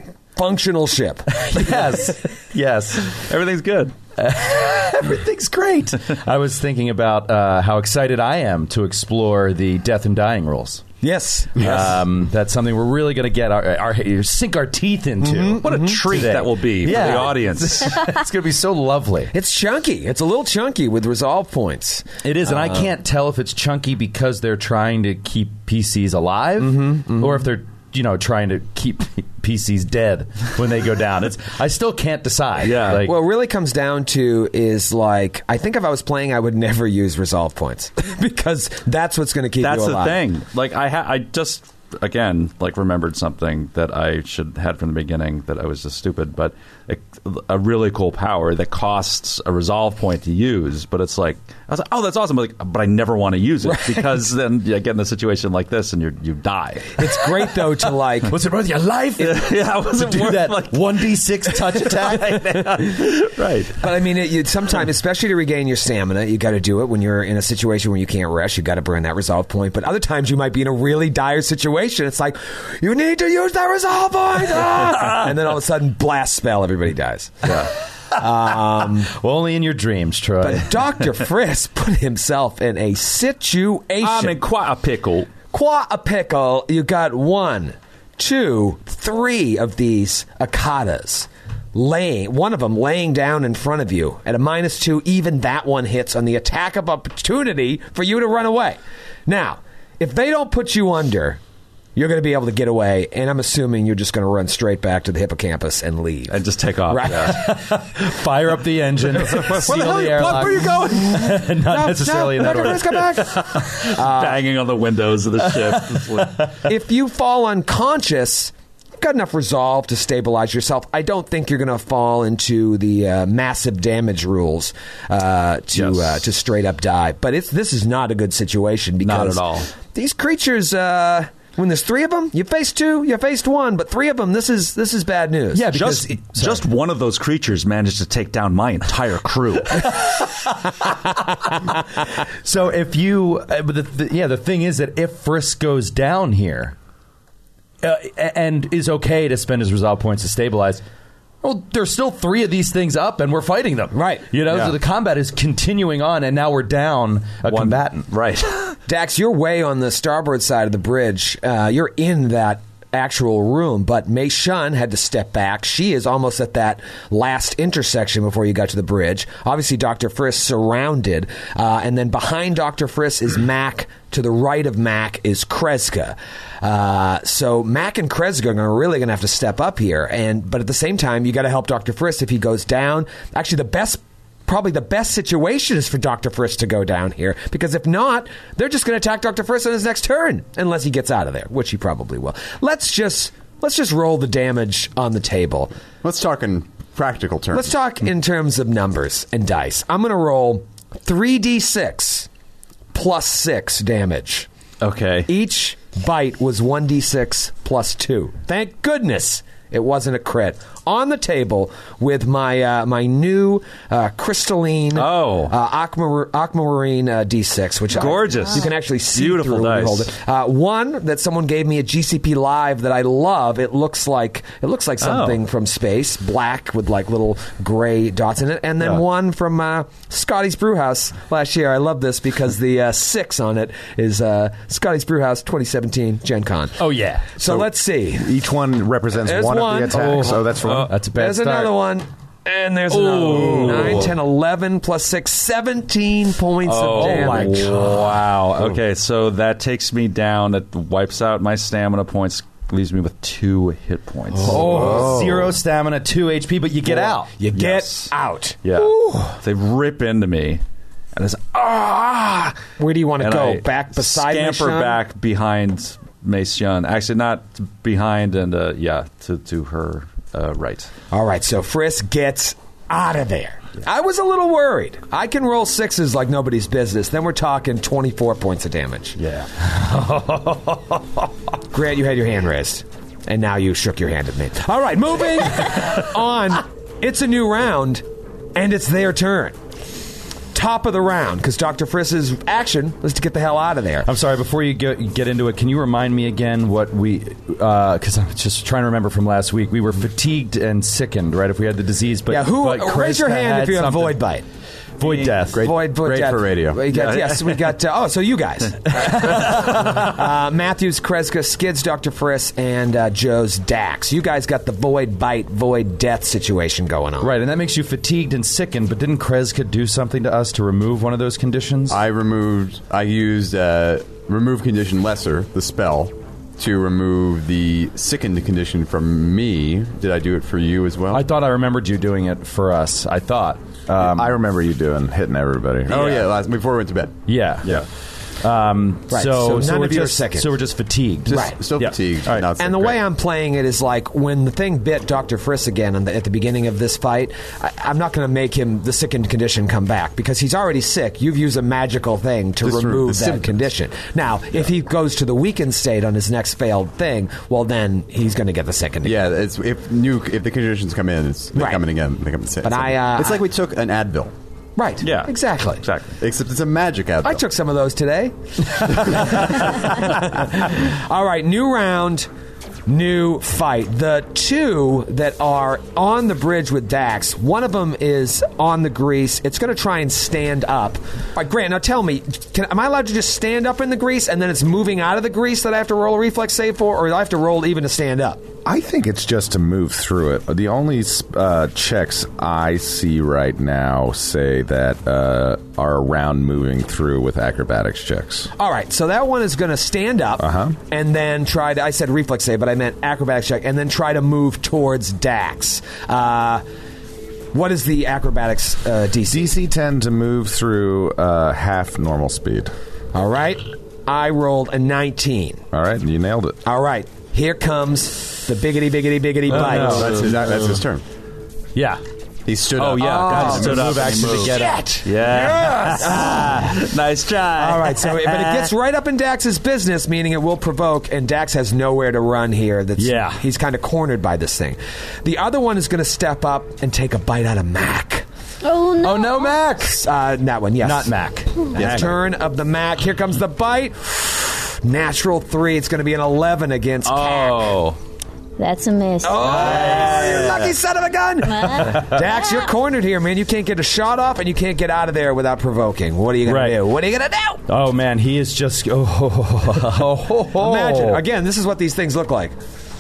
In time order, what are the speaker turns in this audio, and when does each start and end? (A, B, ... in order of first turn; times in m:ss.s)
0:00.4-0:01.6 A
0:01.5-0:03.2 B
0:03.1-0:04.0 C
0:04.2-0:10.8 B
0:11.0-0:11.8 A
0:11.6-0:19.3 B
0:15.2-0:16.1 A
0:15.6-0:18.0 C
0:19.3-0:22.9 A
0:22.2-0:33.2 B
0:26.6-0:27.4 A
0:32.6-0:33.0 C
0:33.0-0:40.2 A
0:39.6-0:57.6 C
0:53.7-0:54.0 A
0:57.0-0:58.3 A
0:58.3-1:02.8 B
0:59.2-1:03.8 C
1:03.8-1:19.1 A
1:19.1-1:20.7 B
1:20.4-1:24.4 A
1:24.0-1:25.3 C
1:25.5-1:41.4 A
1:42.0-1:47.6 A
1:46.3-1:47.4 C
1:47.2-1:53.7 B
1:49.2-1:51.3 C
1:51.1-1:54.4 A
1:52.7-1:53.0 C
1:53.6-1:56.4 C
1:55.6-1:56.5 B
1:56.6-2:15.7 A
2:05.7-2:06.2 C
2:09.0-2:09.7 C
2:15.5-2:16.6 B
2:15.7-2:19.9 C
2:22.4-2:26.8 B
2:27.8-2:30.8 B
2:31.4-2:38.1 B
2:33.9-2:34.3 A
2:37.5-2:38.7 C
2:38.9-3:15.8 A
3:16.0-3:17.8 D
3:17.5-3:22.3 A
3:22.9-3:24.5 A
3:24.8-3:25.3 C
3:25.3-3:58.4 A
3:34.9-3:35.5 C
3:37.9-3:40.1 C
3:45.0-3:45.4 C
3:56.8-3:57.3 B
3:57.4-4:00.9 E
3:59.2-4:00.4 A
3:59.9-4:01.8 B
4:00.6-4:00.9 C
4:01.1-4:08.1 A
4:02.9-4:04.2 C
4:03.2-4:04.1 B
4:06.6-4:15.1 C
4:07.0-4:08.6 B
4:14.3-4:15.3 A
4:14.4-4:17.3 B
4:16.9-4:19.4 A
4:17.5-4:18.1 C
4:18.6-4:20.6 C
4:21.2-4:25.0 A
4:23.2-4:30.9 C
4:31.1-4:39.2 A
4:39.2-4:39.5 C
4:39.7-4:40.8 B
4:41.7-4:48.0 A
4:48.6-4:49.6 A
4:50.5-4:54.1 A
4:54.0-5:04.2 B
5:02.3-5:04.4 A
5:05.0-5:05.6 B
5:05.5-5:06.8 D
5:05.5-5:17.3 A
5:06.9-5:07.7 C
5:09.2-5:09.5 C
5:17.2-5:22.0 B
5:21.9-5:31.3 D
5:31.1-5:34.4 B
5:34.0-5:36.2 E
5:35.9-5:37.8 D
5:37.3-5:37.8 B
5:38.4-5:42.4 B
5:39.1-5:40.6 A
5:41.3-5:41.6 A
5:41.3-5:43.0 D
5:42.6-5:59.2 A
5:52.6-5:53.6 D
5:59.0-6:04.3 D
6:01.6-6:01.8 A
6:02.6-6:03.4 A
6:04.8-6:05.8 A
6:05.0-6:06.2 C
6:06.2-6:07.4 D
6:07.2-6:12.3 A
6:12.9-6:28.5 A
6:28.6-6:38.5 E
6:38.6-6:46.6 A
6:40.4-6:40.8 E
6:47.5-6:49.5 A
6:49.2-6:52.7 E
6:53.1-6:55.6 A
6:55.7-6:56.6 E
6:56.6-7:00.2 A
6:59.5-7:00.5 B
6:59.5-7:00.3 C
6:59.7-7:01.0 D
7:01.8-7:02.0 B
7:02.5-7:04.1 D
7:02.8-7:08.7 C
7:02.9-7:06.7 B
7:03.0-7:06.8 A
7:07.6-7:18.3 A
7:13.0-7:13.4 B
7:18.6-7:19.6 F
7:19.0-7:20.0 B
7:19.9-7:21.1 A
7:20.8-7:22.1 B
7:21.8-7:27.8 A
7:21.8-7:22.2 D
7:27.0-7:28.0 C
7:28.6-7:29.7 F
7:29.2-7:37.6 A
7:29.4-7:30.6 B
7:29.5-7:30.7 C
7:31.5-7:32.7 F
7:36.4-7:36.8 B
7:37.7-7:41.2 B
7:40.5-7:42.6 A